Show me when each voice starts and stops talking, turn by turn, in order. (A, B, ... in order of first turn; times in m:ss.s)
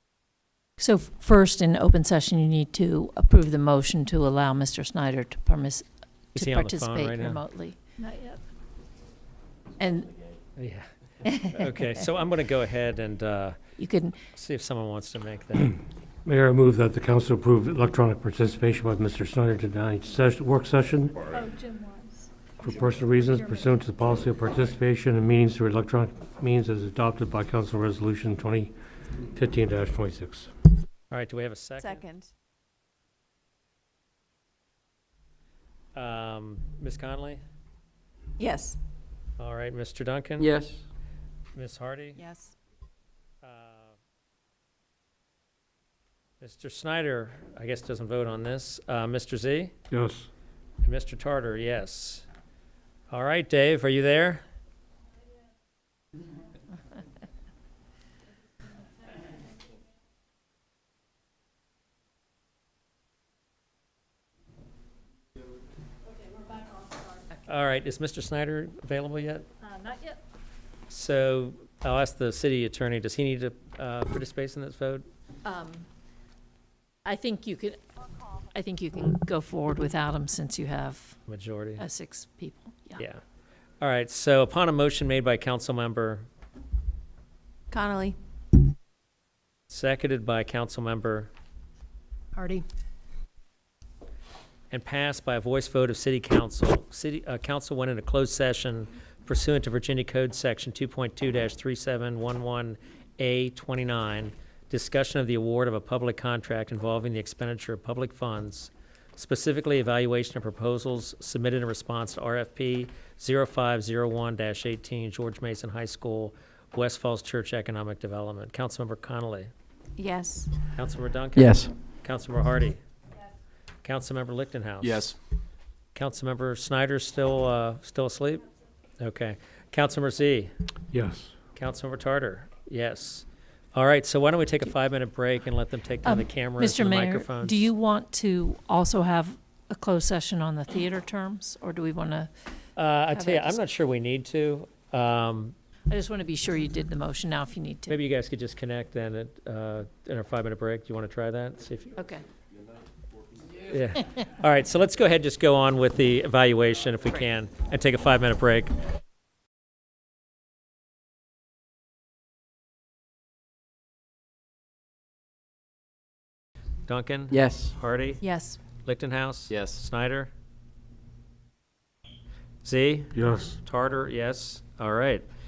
0:00.8-0:07.9 A
0:06.3-0:07.4 B
0:08.0-0:08.4 C
0:09.8-0:10.1 A
0:10.6-0:10.9 B
0:11.4-0:13.6 B
0:13.8-0:14.2 A
0:14.3-0:15.8 B
0:16.2-0:21.3 D
0:21.3-0:23.9 C
0:22.6-0:28.7 D
0:29.3-0:30.5 D
0:31.1-0:32.0 B
0:31.8-0:32.3 E
0:35.9-0:37.4 B
0:38.4-0:38.8 E
0:39.4-0:40.5 B
0:40.4-0:40.8 F
0:41.5-0:42.2 B
0:43.4-0:43.9 B
0:46.4-0:49.7 B
0:49.9-0:50.3 D
0:50.8-0:52.2 B
0:53.1-0:54.4 B
1:07.4-1:09.5 B
1:09.6-1:10.2 C
1:10.9-1:15.1 B
1:15.4-1:15.8 A
1:17.0-1:17.8 A
1:18.5-1:21.2 A
1:21.3-1:21.8 B
1:21.8-1:23.0 A
1:23.0-1:23.2 B
1:23.8-1:26.2 B
1:27.7-1:28.2 E
1:29.7-1:31.3 B
1:34.7-1:59.5 B
2:00.0-2:00.5 E
2:00.7-2:02.8 B
2:01.4-2:01.7 F
2:03.8-2:05.1 B
2:04.8-2:05.2 F
2:05.9-2:08.4 B
2:09.0-2:10.5 B
2:10.9-2:11.3 D
2:11.5-2:17.7 B
2:16.0-2:22.3 A
2:22.8-2:25.5 B
2:23.1-2:23.6 A
2:25.9-2:28.0 A
2:27.9-2:32.0 B
2:32.0-2:32.2 A
2:33.6-2:38.7 B
2:46.9-2:48.2 B
2:47.3-2:47.7 F
2:48.2-2:48.6 A
2:48.8-2:50.3 B
2:49.5-2:49.8 F
2:52.6-2:55.2 B
2:53.1-2:53.5 D